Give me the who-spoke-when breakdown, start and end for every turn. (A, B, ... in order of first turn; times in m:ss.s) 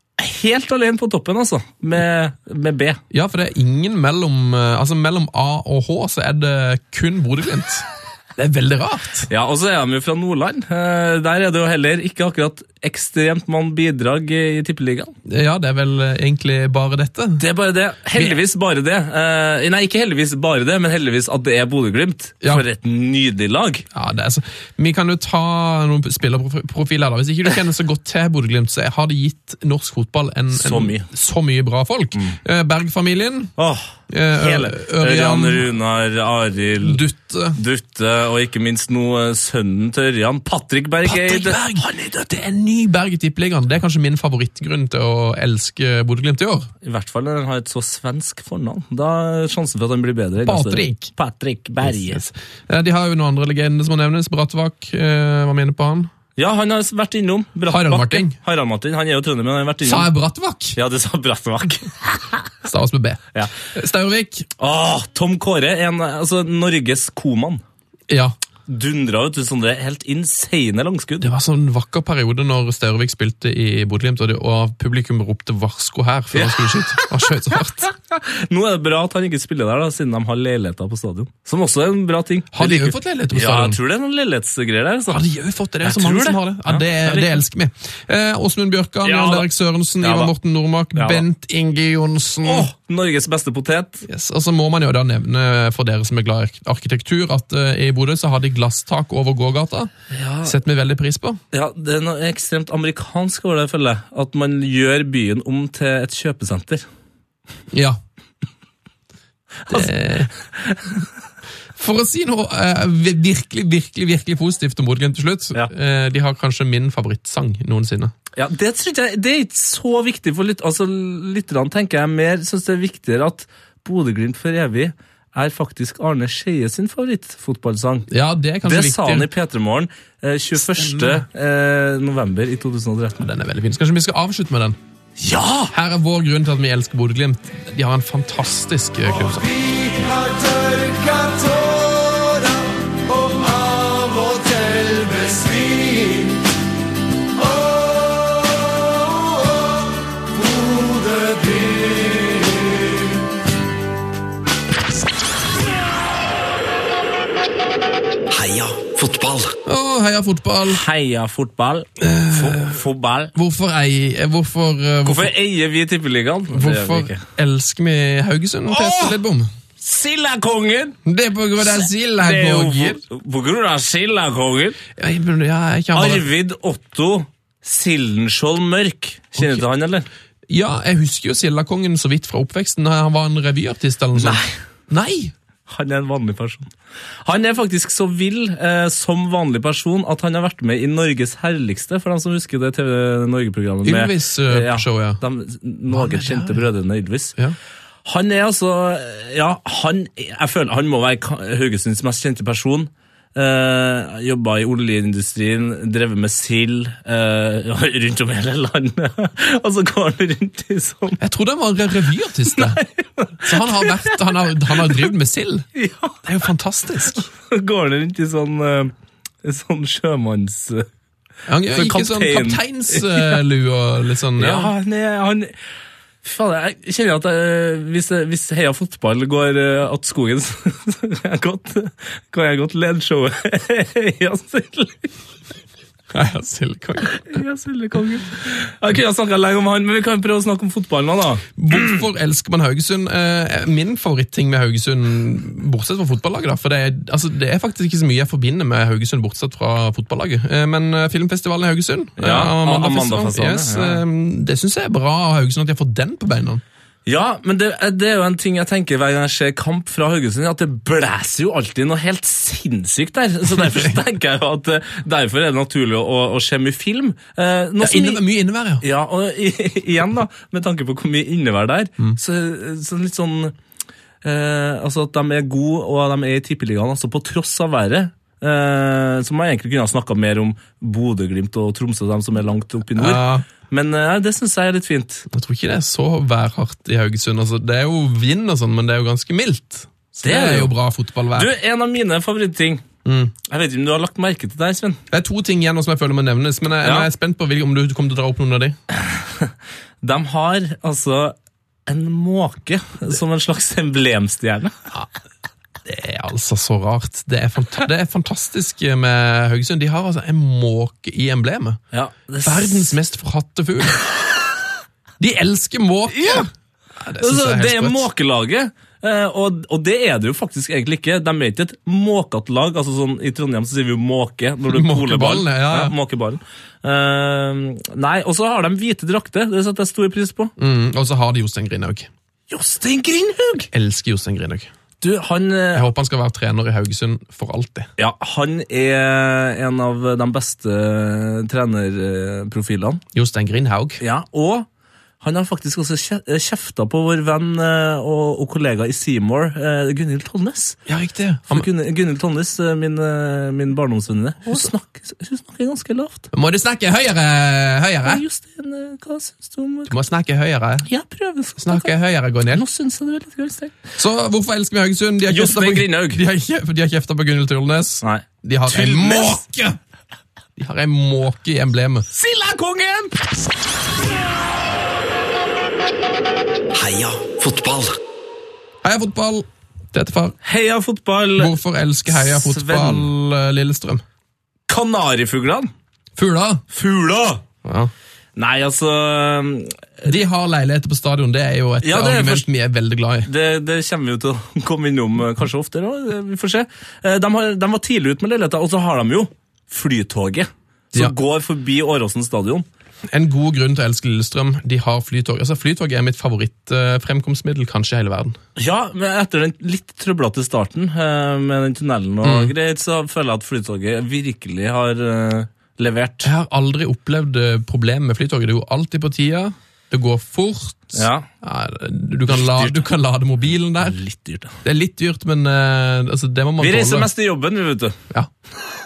0:00.2-0:03.0 A
0:03.1-0:09.3 B
0:09.3-0:15.1 A
0:15.3-0:17.4 B
0:17.4-0:23.9 A
0:23.9-0:33.5 B
0:30.5-0:31.1 A
0:33.6-0:37.0 A
0:34.1-0:35.7 B
0:36.8-0:37.6 B
0:37.6-0:41.9 A
0:41.0-0:46.7 B
0:46.8-0:52.2 A
0:50.4-0:51.1 B
0:51.8-0:56.1 B
0:56.4-1:00.1 A
0:57.7-0:58.4 B
0:59.8-1:00.8 B
1:00.7-1:02.4 A
1:02.6-1:04.5 B
1:04.6-1:07.6 A
1:08.1-1:08.4 B
1:08.7-1:11.3 A
1:11.2-1:17.9 B
1:16.3-1:17.1 A
1:17.8-1:25.2 A
1:22.5-1:23.8 B
1:25.1-1:32.7 B
1:25.8-1:27.4 A
1:29.0-1:29.5 A
1:30.0-1:30.3 A
1:30.9-1:31.2 A
1:32.4-1:34.0 A
1:34.0-1:39.9 B
1:40.1-1:40.6 A
1:40.4-1:41.4 B
1:41.5-1:46.9 A
1:47.7-1:48.0 B
1:49.7-1:50.3 B
1:51.8-1:58.1 B
1:58.4-2:08.1 A
2:08.1-2:09.3 B
2:08.6-2:13.3 A
2:10.6-2:11.2 B
2:13.2-2:14.8 B
2:15.2-2:15.7 A
2:15.7-2:19.5 B
2:38.3-2:39.6 C
2:39.6-2:40.8 B
2:40.6-2:43.3 A
2:42.0-2:42.8 B
2:43.4-2:45.3 B
2:45.0-2:47.2 A
2:46.5-2:49.5 B
2:48.7-2:49.2 A
2:49.8-2:51.0 A
2:51.1-2:53.0 B
2:51.7-2:54.8 A
2:55.0-2:56.3 B
2:55.9-3:00.1 A
2:59.4-2:59.6 B
3:00.5-3:05.3 B
3:04.1-3:04.6 A
3:05.7-3:06.7 A
3:07.2-3:17.4 A
3:13.8-3:15.2 B
3:15.9-3:16.6 B
3:18.0-3:31.2 A
3:31.2-3:32.8 B
3:32.6-3:35.1 A
3:33.4-3:35.6 B
3:35.7-3:36.2 A
3:36.2-3:37.3 B
3:37.4-3:40.9 A
3:41.5-3:44.7 B
3:41.7-3:43.4 A
3:44.4-3:45.6 A
3:46.2-3:55.1 A
3:56.1-3:57.4 B
3:57.0-4:02.0 A
4:01.6-4:16.6 B
4:12.2-4:14.0 A
4:17.1-4:28.2 A
4:27.8-4:28.8 B
4:28.8-4:33.6 A
4:34.2-4:45.3 A
4:43.0-4:43.4 B
4:45.3-4:51.5 B
4:50.2-4:50.7 A
4:51.4-4:52.8 A
4:53.0-4:53.3 B
4:53.4-4:55.0 A
4:55.1-4:58.8 B
4:56.8-4:57.1 A
4:58.9-5:01.4 A
5:01.9-5:04.8 A
5:05.8-5:11.8 B
5:11.9-5:12.9 A
5:12.4-5:14.0 B
5:15.2-5:16.5 B
5:16.1-5:16.4 A
5:17.0-5:18.1 B
5:17.2-5:30.5 A
5:24.7-5:25.9 B
5:30.6-5:32.1 B
5:32.5-5:33.7 A
5:33.7-5:34.7 B
5:35.0-5:35.8 A
5:35.7-5:37.9 B
5:38.0-5:43.0 A
5:43.1-5:44.0 B
5:44.0-5:44.7 A
5:45.2-5:50.8 A
5:50.9-5:51.7 B
5:51.5-5:56.3 A
5:56.3-5:58.2 B
5:58.0-5:59.9 A
5:59.9-6:00.9 B
6:00.8-6:01.9 A
6:01.6-6:02.6 B
6:02.5-6:03.7 A
6:04.0-6:09.8 B
6:05.3-6:06.2 A
6:08.0-6:09.4 A
6:10.6-6:12.1 B
6:12.1-6:13.1 A
6:16.7-6:18.0 C
6:18.8-6:20.4 B
6:20.4-6:21.5 A
6:21.4-6:24.0 B
6:22.1-6:23.1 A
6:24.7-6:25.7 A
6:26.2-6:26.6 B
6:26.7-6:27.4 A
6:27.6-6:27.9 B
6:28.4-6:30.1 A
6:30.0-6:33.3 B
6:31.8-6:32.4 A
6:33.3-6:42.6 A
6:43.1-6:48.4 B
6:48.6-6:56.3 A
6:52.2-6:52.5 B
6:56.2-7:04.0 B
7:00.9-7:01.3 A
7:02.3-7:02.9 A
7:03.8-7:04.6 A
7:04.6-7:07.1 B
7:06.6-7:08.0 A